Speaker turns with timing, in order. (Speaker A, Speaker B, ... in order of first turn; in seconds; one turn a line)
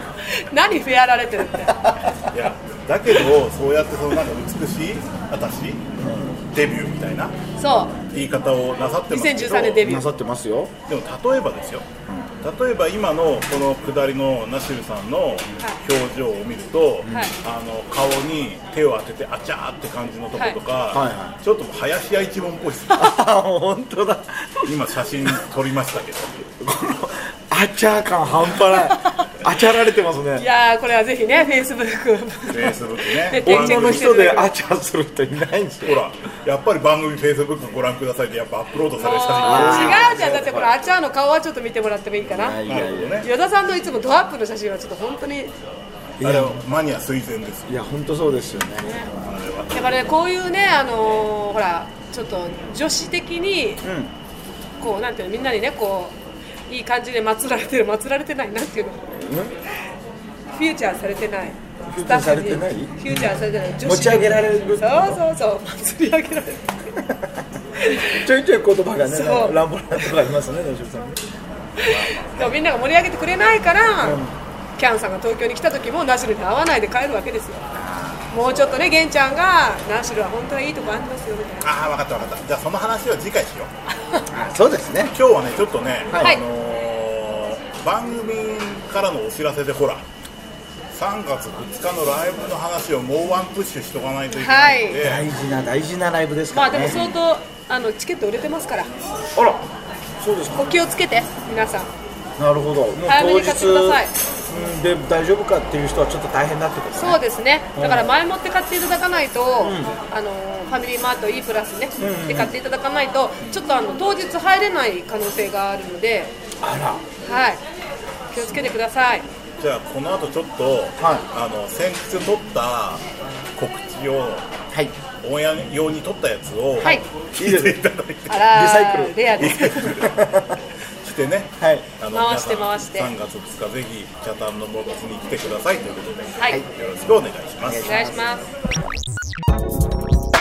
Speaker A: 0.4-1.8
Speaker B: 2.3-5.9
Speaker C: 6.0-6.4
Speaker B: 6.5-7.3
Speaker A: 7.6-8.0
Speaker B: 8.0-9.9
Speaker A: 9.1-10.1
Speaker C: 9.8-10.7
Speaker B: 10.9-11.9
Speaker C: 12.1-12.3
Speaker B: 12.4-23.1
Speaker C: 17.0-17.3
Speaker C: 20.9-21.4
Speaker C: 22.9-24.7
Speaker B: 24.6-26.5
Speaker C: 26.6-30.5
Speaker A: 30.4-34.5
Speaker B: 32.5-34.3
Speaker C: 33.4-36.0
Speaker B: 35.8-40.7
Speaker A: 39.0-42.6
Speaker C: 39.4-40.7
Speaker C: 42.3-43.2
Speaker B: 42.6-43.3
Speaker A: 43.2-45.5
Speaker C: 46.2-46.6
Speaker B: 46.2-47.8
Speaker C: 47.7-48.9
Speaker A: 48.8-49.1
Speaker B: 49.1-50.1
Speaker A: 49.7-53.9
Speaker C: 53.8-54.1
Speaker A: 54.8-56.2
Speaker A: 56.7-59.0
Speaker C: 59.1-59.6
Speaker A: 60.5-66.9
Speaker C: 61.9-65.2
Speaker A: 67.8-68.2
Speaker C: 68.0-71.4
Speaker A: 69.0-69.6
Speaker A: 71.8-74.2
Speaker B: 71.8-72.6
Speaker C: 74.0-74.4
Speaker A: 74.8-77.7
Speaker C: 77.7-78.4
Speaker A: 78.3-81.7
Speaker B: 81.6-83.7
Speaker C: 84.3-85.2
Speaker B: 85.1-90.0
Speaker C: 86.1-86.4
Speaker B: 90.9-95.3
Speaker A: 94.3-95.0
Speaker C: 95.0-97.0
Speaker A: 96.5-98.9
Speaker B: 96.8-97.2
Speaker C: 99.4-99.7
Speaker C: 100.2-100.7
Speaker A: 100.5-101.9
Speaker C: 102.4-107.2
Speaker A: 103.1-104.1
Speaker A: 107.0-116.3
Speaker C: 107.8-108.1
Speaker C: 109.6-110.0
Speaker C: 112.0-112.5
Speaker C: 116.6-117.1
Speaker A: 117.3-117.6
Speaker A: 118.3-119.3
Speaker B: 119.6-124.5
Speaker C: 121.0-121.2
Speaker B: 125.2-128.6
Speaker C: 126.8-127.8
Speaker A: 128.3-130.1
Speaker C: 128.5-130.6
Speaker B: 129.4-130.3
Speaker B: 131.0-138.1
Speaker C: 131.6-131.9
Speaker A: 132.1-133.1
Speaker C: 137.6-138.3
Speaker A: 137.8-138.5